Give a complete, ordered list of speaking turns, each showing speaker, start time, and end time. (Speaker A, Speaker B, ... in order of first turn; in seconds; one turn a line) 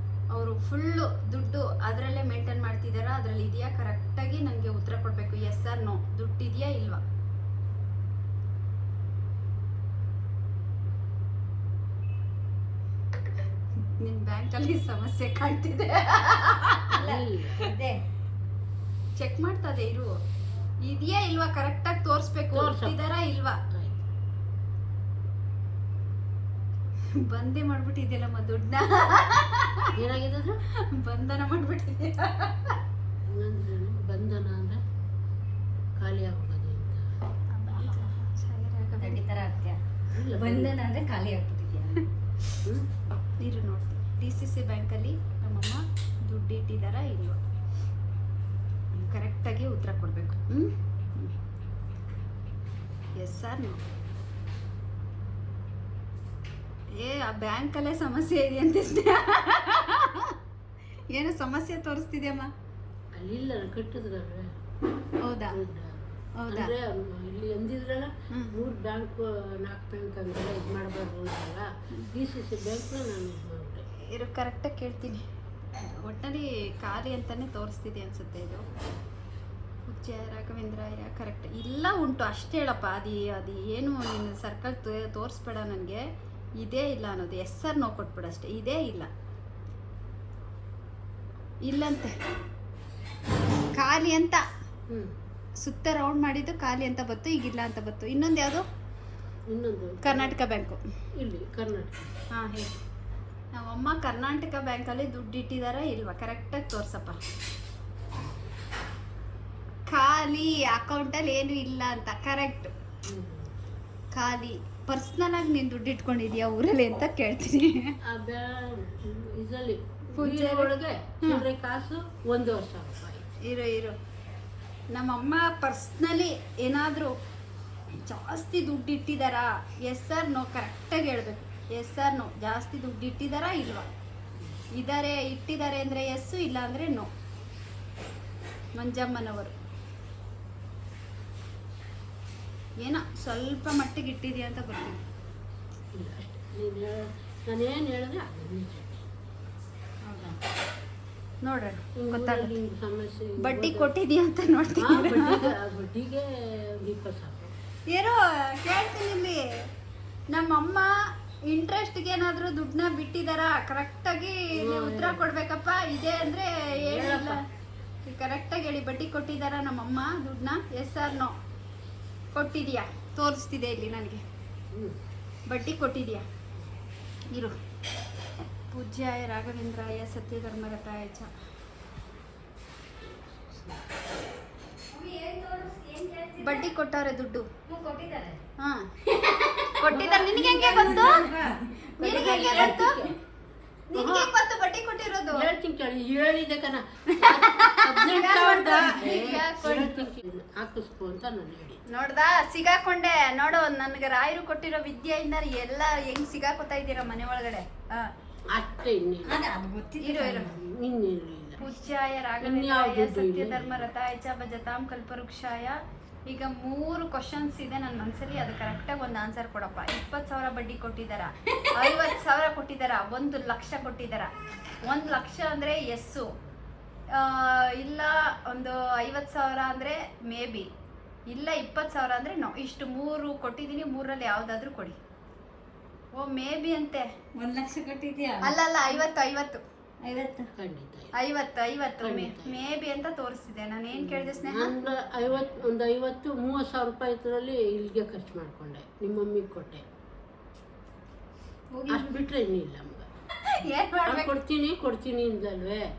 Speaker A: 0.3-7.0
Speaker A: 13.9-17.0
Speaker B: 17.0-17.7
Speaker C: 17.0-18.0
Speaker A: 19.2-20.2
Speaker A: 20.8-23.6
Speaker B: 22.5-23.0
Speaker B: 23.7-24.0
Speaker A: 27.1-29.9
Speaker B: 30.0-30.6
Speaker A: 30.8-32.8
Speaker B: 33.2-34.8
Speaker B: 36.0-37.1
Speaker A: 37.5-39.2
Speaker C: 39.0-39.8
Speaker B: 40.1-40.8
Speaker C: 40.3-42.0
Speaker A: 43.4-47.4
Speaker A: 48.9-51.3
Speaker A: 53.2-53.8
Speaker A: 57.0-60.4
Speaker A: 61.1-62.5
Speaker B: 63.2-64.5
Speaker A: 65.2-65.6
Speaker B: 65.5-73.9
Speaker A: 66.4-66.7
Speaker A: 74.1-75.2
Speaker A: 75.8-78.7
Speaker A: 79.9-86.0
Speaker A: 86.6-89.1
Speaker A: 91.6-92.2
Speaker A: 93.8-94.4
Speaker B: 94.9-95.1
Speaker A: 95.6-98.6
Speaker B: 99.5-100.3
Speaker A: 100.0-100.8
Speaker B: 101.2-102.1
Speaker A: 102.3-102.8
Speaker A: 103.5-107.2
Speaker A: 109.9-112.7
Speaker B: 113.0-113.5
Speaker A: 114.1-118.0
Speaker B: 118.0-123.3
Speaker A: 120.2-120.7
Speaker A: 123.4-124.0
Speaker A: 124.9-127.2
Speaker A: 128.0-133.9
Speaker A: 134.7-137.1
Speaker A: 138.8-139.5
Speaker A: 142.8-145.0
Speaker B: 145.9-149.0
Speaker A: 151.4-152.5
Speaker B: 152.0-153.9
Speaker A: 153.4-155.5
Speaker B: 154.8-157.5
Speaker A: 157.9-159.5
Speaker A: 160.3-160.9
Speaker A: 161.5-167.4
Speaker B: 164.6-165.3
Speaker B: 166.8-167.4
Speaker A: 168.0-171.3
Speaker A: 172.3-174.2
Speaker B: 174.7-175.0
Speaker A: 175.5-176.2
Speaker A: 177.3-177.6
Speaker A: 178.7-181.3
Speaker C: 184.9-186.7
Speaker A: 186.4-187.5
Speaker C: 187.7-188.4
Speaker A: 188.6-188.9
Speaker C: 189.1-192.9
Speaker A: 189.8-193.1
Speaker B: 189.9-191.3
Speaker B: 192.0-193.1
Speaker A: 193.9-195.5
Speaker B: 193.9-194.3
Speaker B: 195.3-201.8
Speaker A: 197.1-200.0
Speaker A: 201.9-208.1
Speaker B: 208.5-209.4
Speaker C: 209.2-210.6
Speaker A: 210.0-210.6
Speaker B: 210.5-211.6
Speaker A: 211.6-224.3
Speaker B: 212.4-213.9
Speaker A: 224.8-226.3
Speaker A: 227.1-230.7
Speaker A: 231.3-235.0
Speaker A: 236.1-237.1
Speaker C: 237.4-239.0
Speaker A: 238.4-239.6
Speaker C: 240.0-240.5
Speaker B: 240.6-241.1
Speaker A: 241.1-244.7
Speaker B: 242.0-242.6
Speaker B: 244.0-249.8
Speaker A: 251.8-252.2
Speaker B: 251.9-253.1
Speaker A: 253.5-254.3
Speaker B: 254.1-255.8